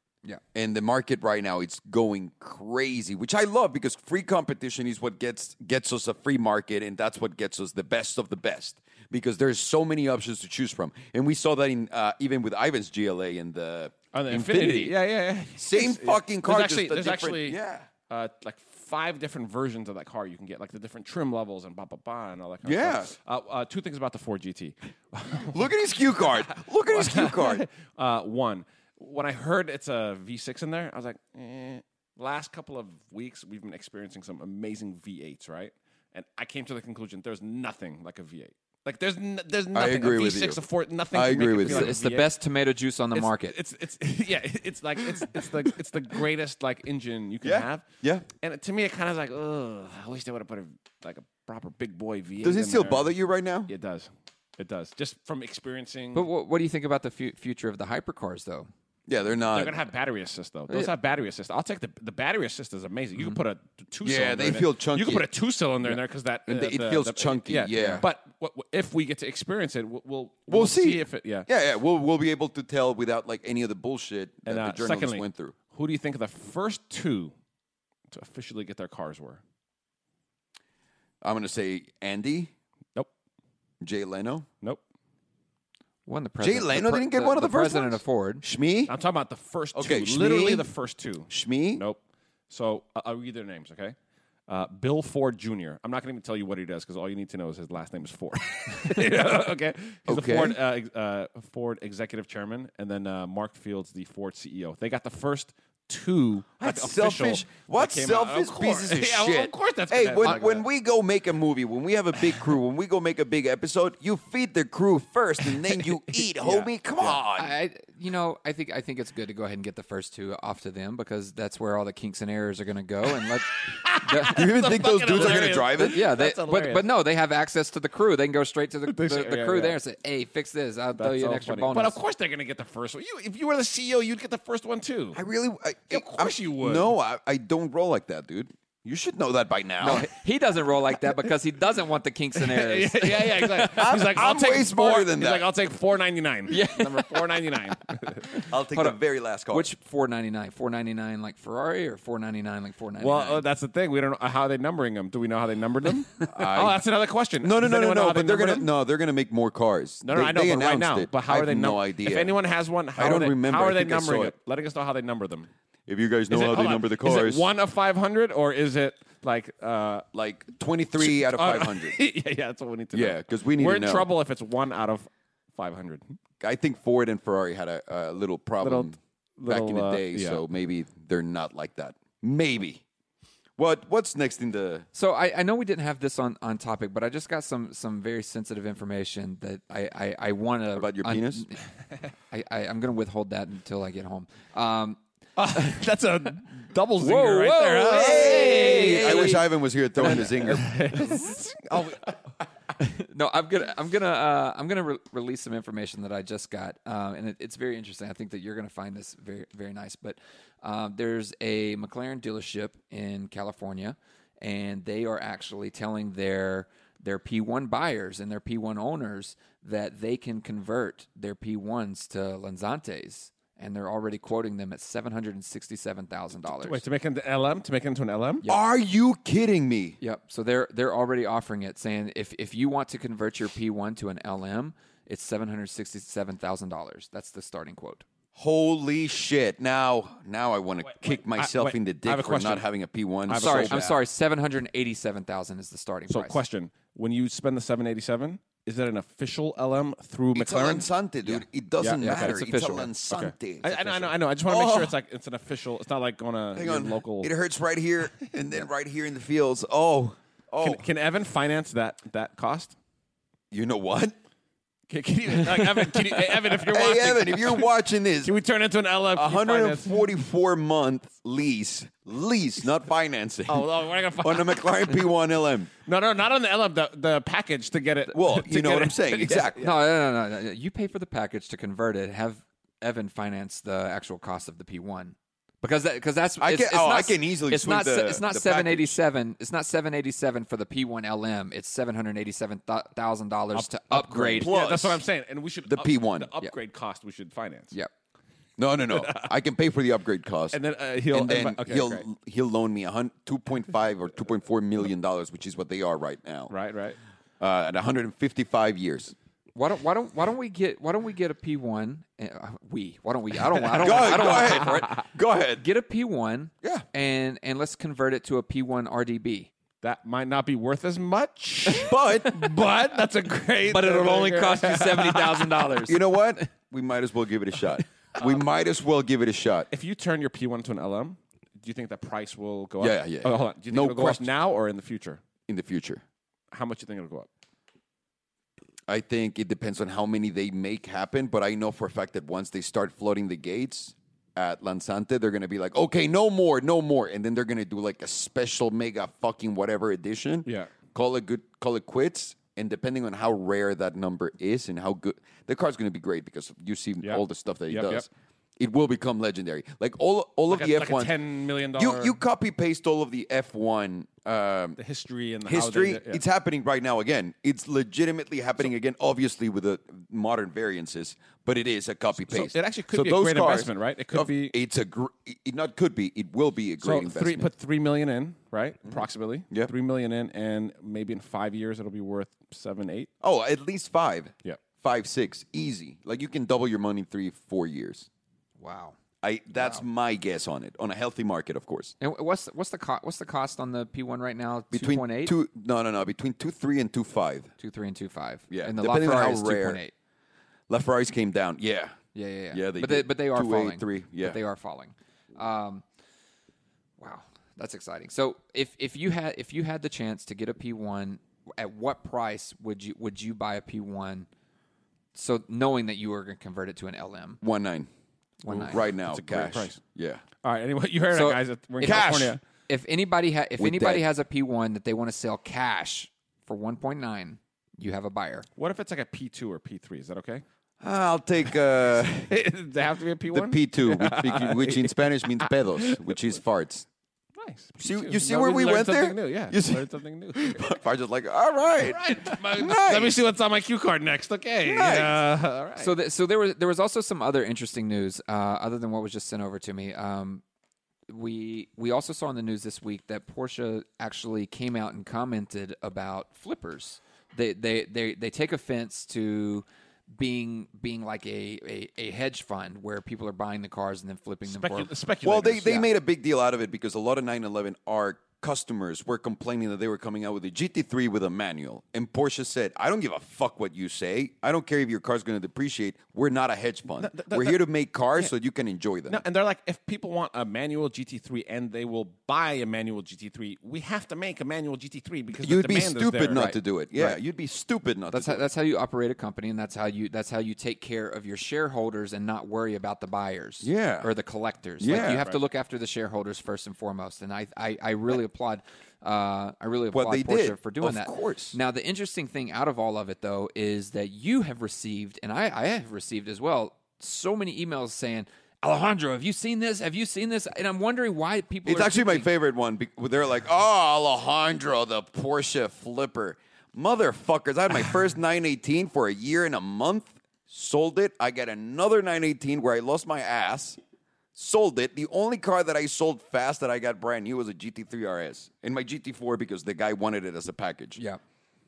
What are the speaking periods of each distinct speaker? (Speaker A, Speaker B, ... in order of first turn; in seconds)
Speaker A: 0.5-15.0, 15.5-17.9, 22.6-23.1, 25.4-27.7, 39.7-41.9, 47.4-48.2, 52.4-53.7, 59.1-59.8, 64.0-65.3, 65.8-68.0, 70.5-75.5, 81.2-82.5, 83.8-84.5, 86.4-88.9, 89.7-90.7, 91.3-91.8, 100.1-100.6, 106.6-117.5, 124.3-126.0, 135.1-140.1, 143.6-145.5, 148.4-149.7, 156.2-156.8, 157.4-162.4, 162.9-164.3, 165.9-167.4, 170.1-172.0, 172.9-174.1, 176.4-182.8, 183.6-184.8, 190.8-191.4, 197.9-201.0, 228.4-230.0, 238.3-243.9, 250.3-254.9, 256.5-260.8, 263.5-264.1, 266.6-268.3, 269.1-275.7, 278.1-279.6, 286.4-289.0, 294.4-295.0, 295.7-296.3, 298.6-306.5, 307.4-309.1, 313.8-315.6, 321.7-322.4, 325.9-329.7, 332.8-334.3, 335.5-336.0, 338.9-361.1, 361.7-364.8, 365.4-377.5, 378.8-379.7, 383.2-388.1, 389.2-391.9, 394.7-397.5, 398.5-399.8, 400.7-402.0, 402.5-404.4, 417.4-417.9, 418.5-420.2, 421.8-422.4, 423.6-424.0, 430.8-432.4, 433.3-436.9, 437.8-443.2, 444.6-445.2, 465.2-479.2, 485.4-488.4, 493.6-494.1, 494.8-495.2, 499.9-501.6, 511.6-523.8, 524.3-531.0
Speaker B: 14.1-25.7, 26.5-42.3, 43.1-47.8, 48.4-53.1, 53.7-56.3, 59.5-71.5, 74.5-77.3, 78.1-79.4, 88.9-94.0, 94.5-110.6, 115.5-117.2, 123.1-126.9, 128.8-129.8, 130.9-135.2, 135.9-136.9, 142.3-148.4, 153.0-158.7, 160.0-165.5, 166.3-170.1, 171.0-176.2, 178.6-180.4, 195.3-199.4, 200.0-202.2, 226.5-228.4, 241.0-242.7, 243.3-244.0, 246.1-250.9, 251.8-252.4, 253.1-257.3, 260.6-262.7, 264.9-267.7, 268.2-270.0, 273.5-275.1, 275.8-279.8, 293.5-297.7, 298.9-299.3, 300.5-302.0, 306.5-307.0, 313.6-314.8, 319.8-325.7, 329.7-335.2, 336.5-337.3, 350.4-350.7, 357.0-358.1, 360.5-362.2, 364.8-366.2, 372.2-374.6, 376.8-383.1, 418.5-419.8, 420.4-422.4, 428.6-430.4, 432.3-436.2, 437.4-440.7, 441.8-445.9, 464.4-465.9, 477.0-477.6, 479.1-486.4, 494.9-495.4
Speaker C: 41.6-43.6, 56.1-58.7, 67.7-68.0, 86.0-88.4, 110.2-110.5, 117.1-124.4, 125.3-132.0, 139.8-143.7, 146.5-147.6, 148.3-149.0, 149.5-153.4, 184.9-191.6, 192.3-195.0, 195.5-195.8, 197.0-199.5, 200.0-200.3, 202.8-226.8, 230.0-238.0, 243.4-246.4, 252.0-252.9, 279.6-294.5, 309.5-315.1, 315.6-319.5, 323.7-326.2, 388.6-389.0, 389.5-389.8, 392.0-395.3, 397.6-399.9, 402.1-405.8, 407.0-414.3, 415.1-417.4, 418.4-418.8, 421.1-422.1, 422.7-428.5, 445.8-450.4, 451.1-459.6, 460.1-464.9, 486.3-487.2, 488.1-512.3